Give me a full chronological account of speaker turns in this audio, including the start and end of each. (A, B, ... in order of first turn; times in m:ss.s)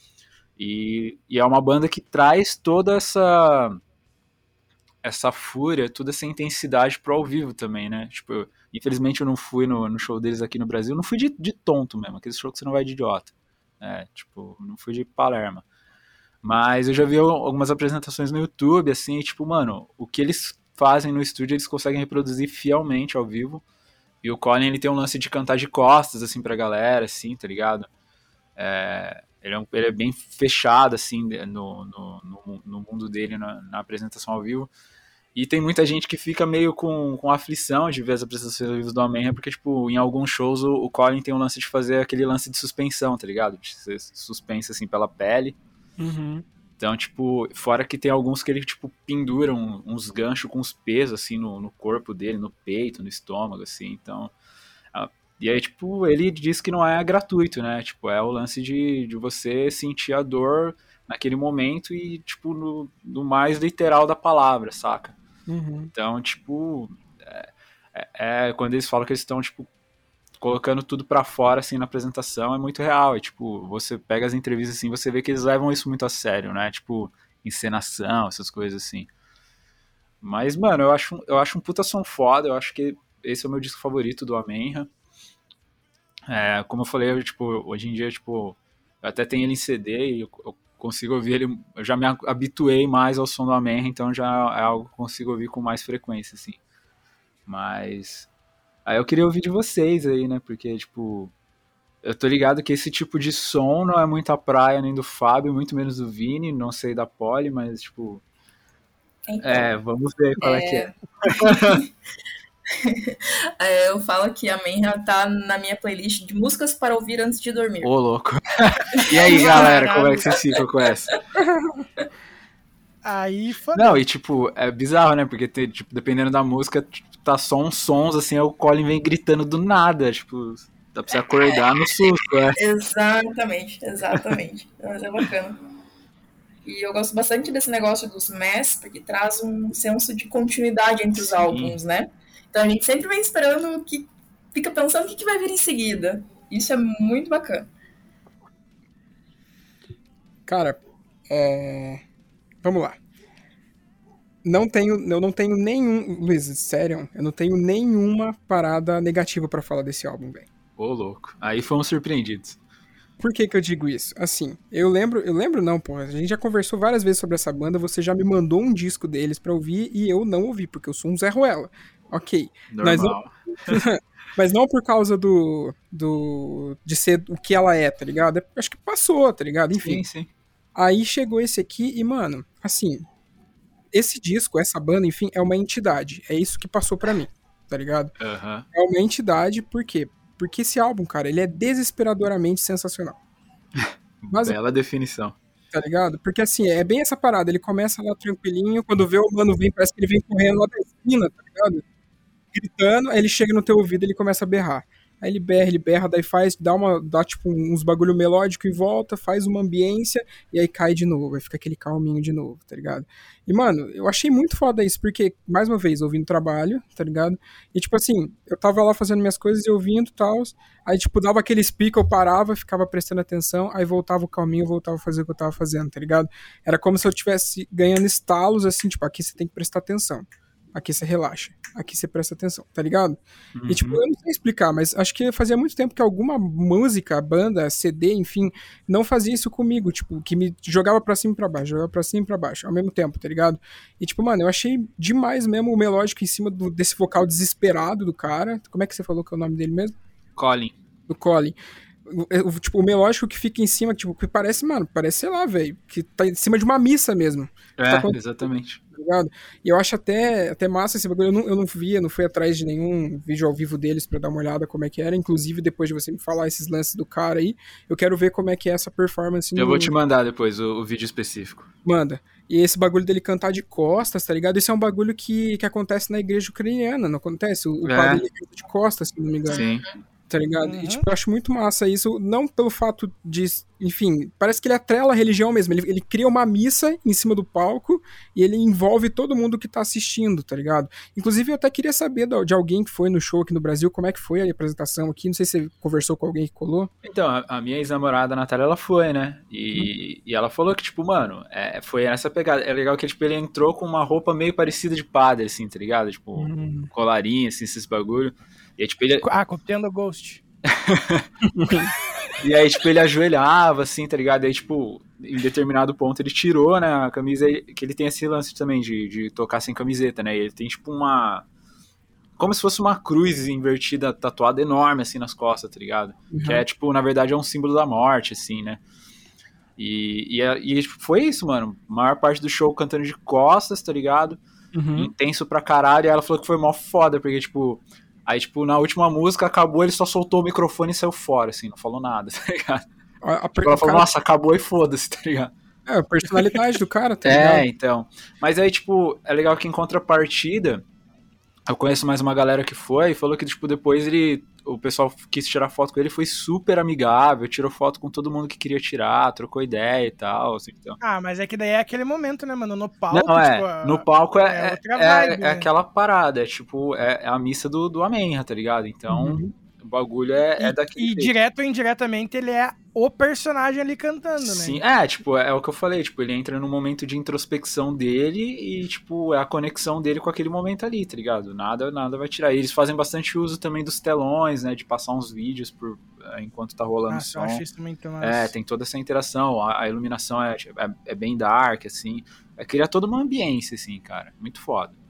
0:00.6-0:03.8 A
0:05.0-0:15.6 A
0:16.4-0:23.6 A
0:24.2-0:27.9 A
0:28.6-0:34.7 A
0:35.3-0:45.6 A
0:46.0-0:46.4 B
0:46.8-0:54.3 A
0:54.9-1:05.2 A
1:05.5-1:05.9 B
1:05.9-1:09.7 A
1:10.4-1:19.1 A
1:20.2-1:24.9 A
1:26.3-1:36.6 A
1:37.5-1:38.3 A
1:38.8-1:41.3 A
1:42.0-1:48.2 A
1:49.3-1:49.7 C
1:49.4-1:51.8 A
1:50.4-1:51.8 C
1:52.8-1:57.9 C
1:57.8-2:01.1 A
1:59.1-2:00.3 D
1:59.2-1:59.8 C
2:01.4-2:01.7 B
2:03.0-2:04.0 D
2:03.7-2:12.6 A
2:12.6-2:15.6 C
2:16.6-2:27.7 C
2:21.2-2:21.8 A
2:30.5-2:32.0 B
2:32.6-2:33.0 B
2:34.4-2:40.5 B
2:40.8-2:42.6 A
2:43.2-3:00.0 B
2:52.7-2:53.8 A
2:59.8-3:00.3 A
3:00.7-3:03.0 B
3:03.9-3:08.1 B
3:08.2-3:08.6 A
3:08.7-3:13.2 B
3:13.8-3:15.4 A
3:14.3-3:14.6 B
3:15.7-3:21.8 B
3:22.5-4:09.9 B
3:53.5-3:54.0 A
4:10.4-4:10.8 A
4:11.1-4:18.2 B
4:17.8-4:18.8 A
4:18.9-4:29.9 B
4:29.6-4:31.7 A
4:31.8-4:39.6 B
4:37.8-4:38.2 A
4:39.5-4:39.8 C
4:39.5-4:39.8 A
4:40.3-4:56.9 B
4:40.6-4:41.0 D
4:57.0-5:09.2 A
5:06.4-5:06.9 B
5:09.2-5:10.4 D
5:10.7-5:11.3 A
5:11.4-5:11.9 B
5:12.4-5:21.4 A
5:22.4-5:28.8 A
5:26.3-5:26.6 B
5:29.8-5:34.4 A
5:34.7-5:35.1 B
5:34.9-5:42.8 A
5:43.2-5:44.1 B
5:43.6-5:45.5 A
5:45.8-5:47.7 B
5:47.2-5:50.8 A
5:51.7-6:01.0 A
6:01.0-6:05.7 D
6:03.1-6:11.3 A
6:09.1-6:09.5 B
6:10.6-6:14.8 D
6:14.4-6:27.6 A
6:27.1-6:28.5 D
6:28.2-6:34.9 A